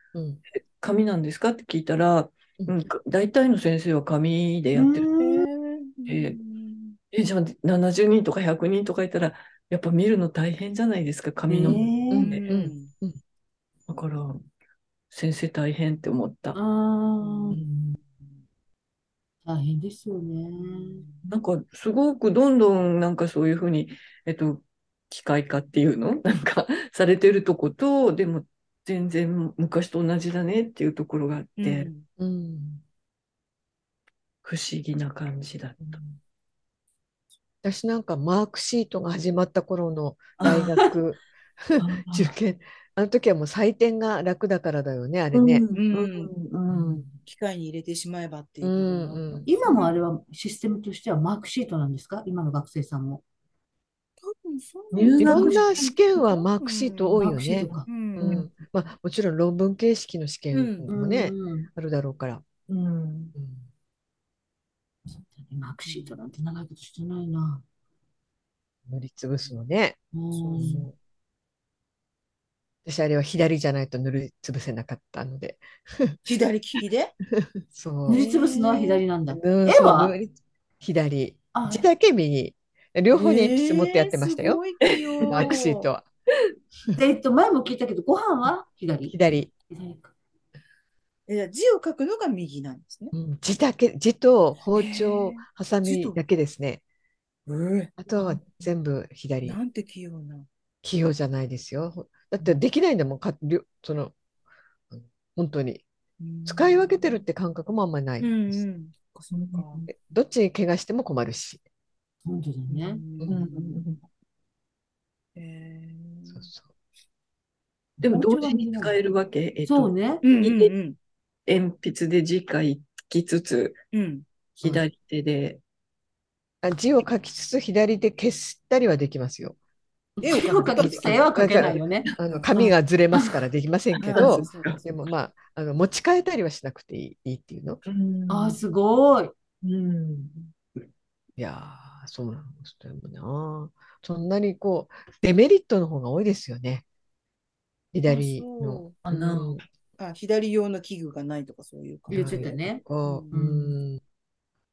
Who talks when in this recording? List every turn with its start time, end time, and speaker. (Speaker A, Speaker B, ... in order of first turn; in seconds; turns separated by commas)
Speaker A: 0.1-0.4, Speaker B: 0.6-5.1, Speaker C: 4.7-5.5, Speaker D: 5.2-7.0, Speaker B: 6.0-6.4, Speaker B: 7.1-12.4, Speaker C: 11.5-12.3, Speaker D: 11.7-12.9, Speaker A: 12.1-13.2, Speaker B: 13.9-14.4, Speaker B: 15.1-16.6, Speaker C: 16.5-17.6, Speaker D: 17.2-17.8, Speaker C: 19.4-21.0, Speaker D: 20.6-21.3, Speaker B: 21.3-31.9, Speaker D: 31.6-32.0, Speaker A: 32.2-32.8, Speaker B: 34.4-36.0, Speaker A: 35.8-36.1, Speaker A: 37.6-45.6, Speaker B: 40.4-40.7, Speaker C: 40.5-40.9, Speaker B: 41.8-42.3, Speaker B: 45.3-47.0, Speaker D: 45.7-46.3, Speaker A: 46.7-47.0, Speaker D: 47.2-49.9, Speaker A: 48.6-49.5, Speaker C: 49.5-53.2, Speaker D: 54.2-57.3, Speaker B: 54.9-55.9, Speaker A: 55.2-62.4, Speaker C: 57.2-58.5, Speaker D: 57.9-58.4, Speaker D: 60.5-60.9, Speaker C: 60.9-61.7, Speaker B: 62.7-63.3, Speaker A: 63.3-63.6, Speaker C: 65.1-67.6, Speaker D: 65.9-66.1, Speaker A: 68.9-70.9, Speaker C: 70.1-70.9, Speaker D: 70.6-70.8, Speaker A: 72.8-76.2, Speaker D: 76.2-77.1, Speaker A: 77.3-78.3, Speaker C: 78.1-80.1, Speaker D: 78.1-79.0, Speaker A: 79.3-84.6, Speaker C: 81.5-81.9, Speaker D: 83.1-85.9, Speaker B: 85.2-85.5, Speaker A: 85.3-86.0, Speaker C: 87.0-89.2, Speaker A: 89.1-89.5, Speaker C: 89.7-90.1, Speaker D: 91.3-93.1, Speaker A: 93.1-96.8, Speaker D: 94.7-96.2, Speaker D: 97.5-98.0, Speaker A: 98.0-99.6, Speaker D: 99.4-100.5, Speaker A: 100.8-104.1, Speaker A: 104.9-105.8, Speaker D: 106.2-107.2, Speaker A: 106.4-108.6, Speaker D: 108.2-109.8, Speaker B: 109.3-109.9, Speaker A: 109.9-111.6, Speaker C: 112.2-113.0, Speaker D: 112.7-113.8, Speaker B: 113.3-114.0, Speaker D: 115.3-116.5, Speaker A: 116.3-116.7, Speaker C: 118.0-119.0, Speaker B: 118.0-120.7, Speaker C: 119.7-120.2, Speaker D: 120.2-121.0, Speaker B: 121.5-123.8, Speaker D: 123.9-124.2, Speaker B: 124.5-125.6, Speaker A: 126.6-129.6, Speaker A: 130.2-137.8, Speaker D: 130.2-131.4, Speaker C: 130.2-133.4, Speaker B: 134.0-134.8, Speaker D: 134.0-135.0, Speaker B: 137.8-138.6, Speaker C: 138.3-139.3, Speaker B: 139.6-140.5, Speaker A: 141.4-146.8, Speaker A: 147.9-149.6, Speaker D: 148.1-148.9, Speaker B: 149.0-149.6, Speaker D: 150.0-152.5, Speaker A: 152.1-154.0, Speaker C: 152.1-153.8, Speaker D: 153.0-153.3